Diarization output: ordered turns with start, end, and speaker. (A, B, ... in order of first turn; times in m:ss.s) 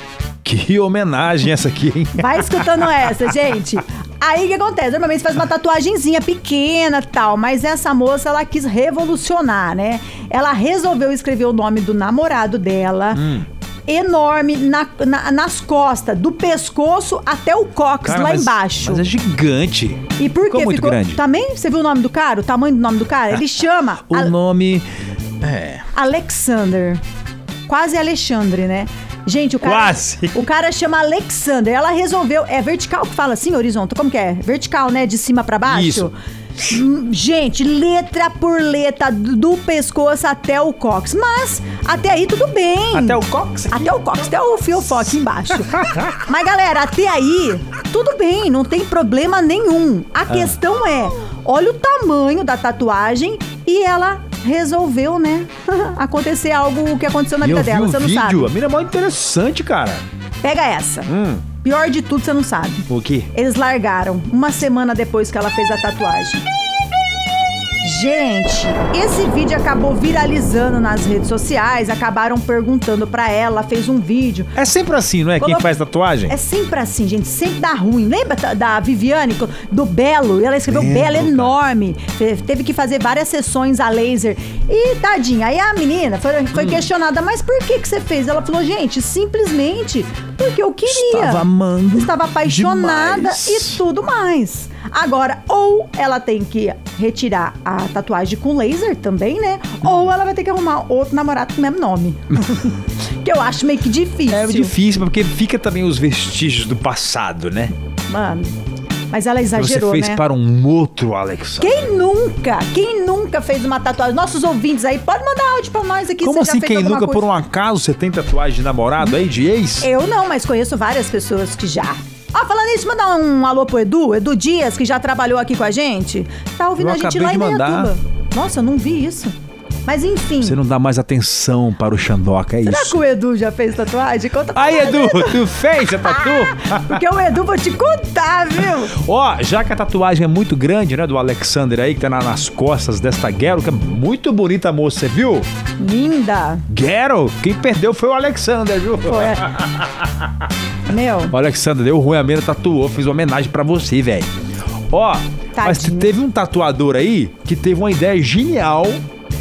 0:00.4-0:03.1 A
0:02.2-0:13.3 B
0:13.1-0:13.4 A
0:13.9-0:19.1 B
0:18.0-0:21.2 A
0:20.2-0:24.3 B
0:24.1-0:24.8 A
0:25.4-0:25.8 A
0:25.9-0:27.0 B
0:27.7-0:43.2 B
0:29.6-0:30.4 A
0:35.7-0:36.1 A
0:42.9-0:44.2 A
0:43.7-0:58.5 B
0:45.8-0:46.1 A
0:57.4-1:00.0 A
1:00.4-1:01.1 B
1:01.1-1:01.4 A
1:01.6-1:06.4 B
1:02.9-1:03.3 A
1:07.8-1:14.5 B
1:14.5-1:16.4 A
1:15.4-1:15.7 B
1:16.3-1:44.7 B
1:20.7-1:21.5 A
1:26.5-1:26.9 A
1:30.9-1:33.8 A
1:44.3-1:47.7 A
1:48.1-1:48.6 B
1:49.1-1:50.2 B
1:49.5-1:51.8 A
1:51.6-1:57.3 B
1:56.2-1:59.9 A
1:59.8-2:09.3 B
2:06.8-2:07.9 A
2:09.8-2:10.6 B
2:10.4-2:13.0 A
2:12.6-2:19.0 B
2:14.5-2:17.0 A
2:18.9-2:25.5 A
2:25.8-2:26.6 B
2:26.7-2:30.2 A
2:29.0-2:29.5 B
2:30.9-2:31.4 B
2:31.3-2:34.3 A
2:34.9-2:39.0 A
2:35.5-2:36.1 B